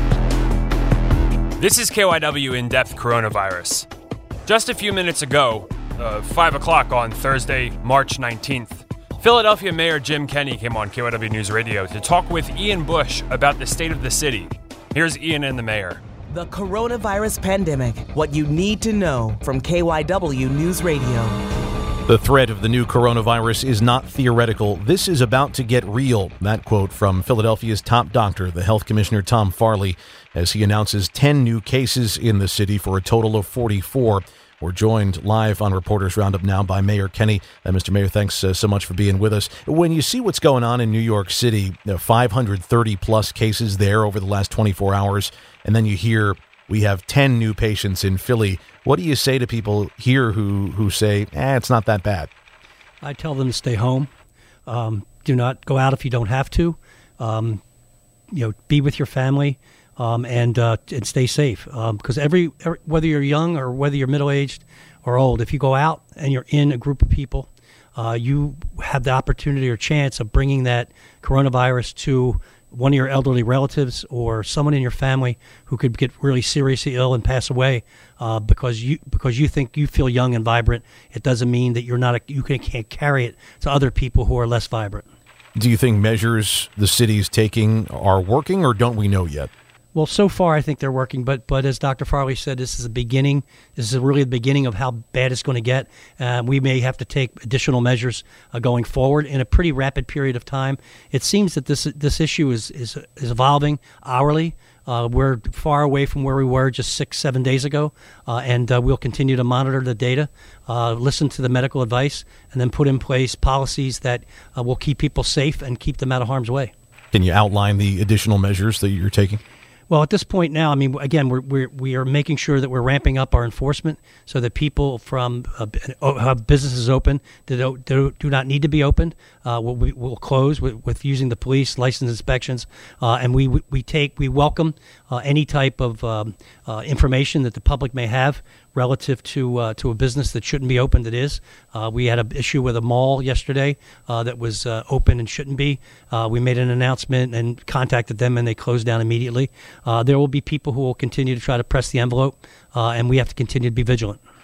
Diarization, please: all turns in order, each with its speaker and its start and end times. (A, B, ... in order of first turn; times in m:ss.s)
0:01.6-0:03.9 A
0:04.4-0:16.0 A
0:16.3-0:21.4 B
0:22.1-0:52.3 C
0:53.0-0:54.1 D
0:54.7-0:57.6 D
0:58.3-1:25.1 D
1:25.6-1:29.5 C
1:29.9-1:56.7 D
1:57.1-1:59.4 C
1:59.9-2:34.2 D